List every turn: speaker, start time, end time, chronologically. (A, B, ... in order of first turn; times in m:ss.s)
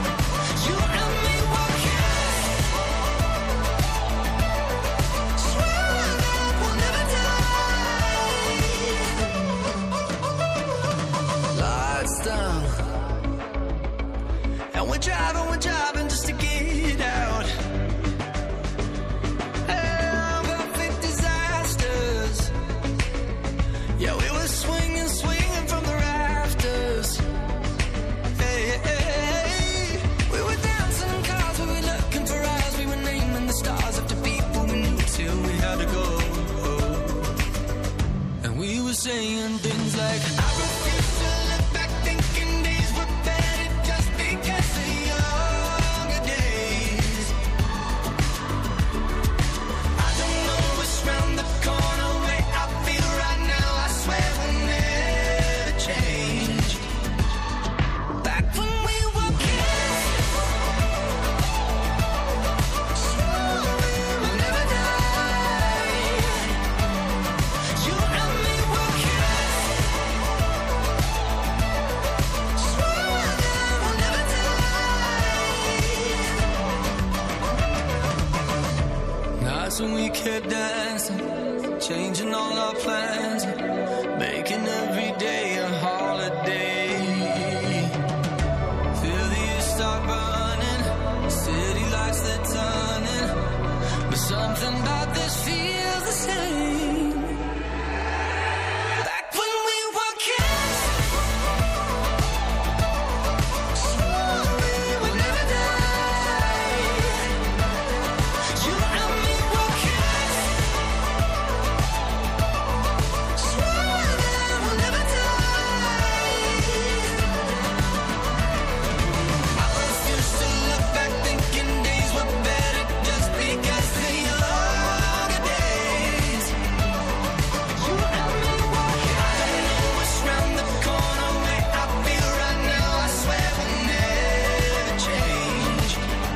0:00.5-0:02.7 A
0:05.4-0:08.6 A
0:11.5-0:12.9 A
0:14.7-0:17.5 A
0:19.7-0:22.5 A
0:24.0-0:27.3 A
0:28.4-0:37.4 A
0:38.4-0:47.4 A
0:50.0-0:56.9 A
0:58.2-1:00.5 A
1:02.9-1:06.6 A
1:07.7-1:09.9 A
1:12.6-1:16.2 A
1:19.4-1:23.6 A
1:24.1-1:28.0 A
1:28.9-1:33.5 A
1:34.1-1:37.4 A
1:38.9-1:41.1 A
1:43.7-1:47.4 A
1:48.5-1:50.8 A
1:53.4-1:57.0 A
1:59.5-2:06.6 A
2:07.8-2:16.0 A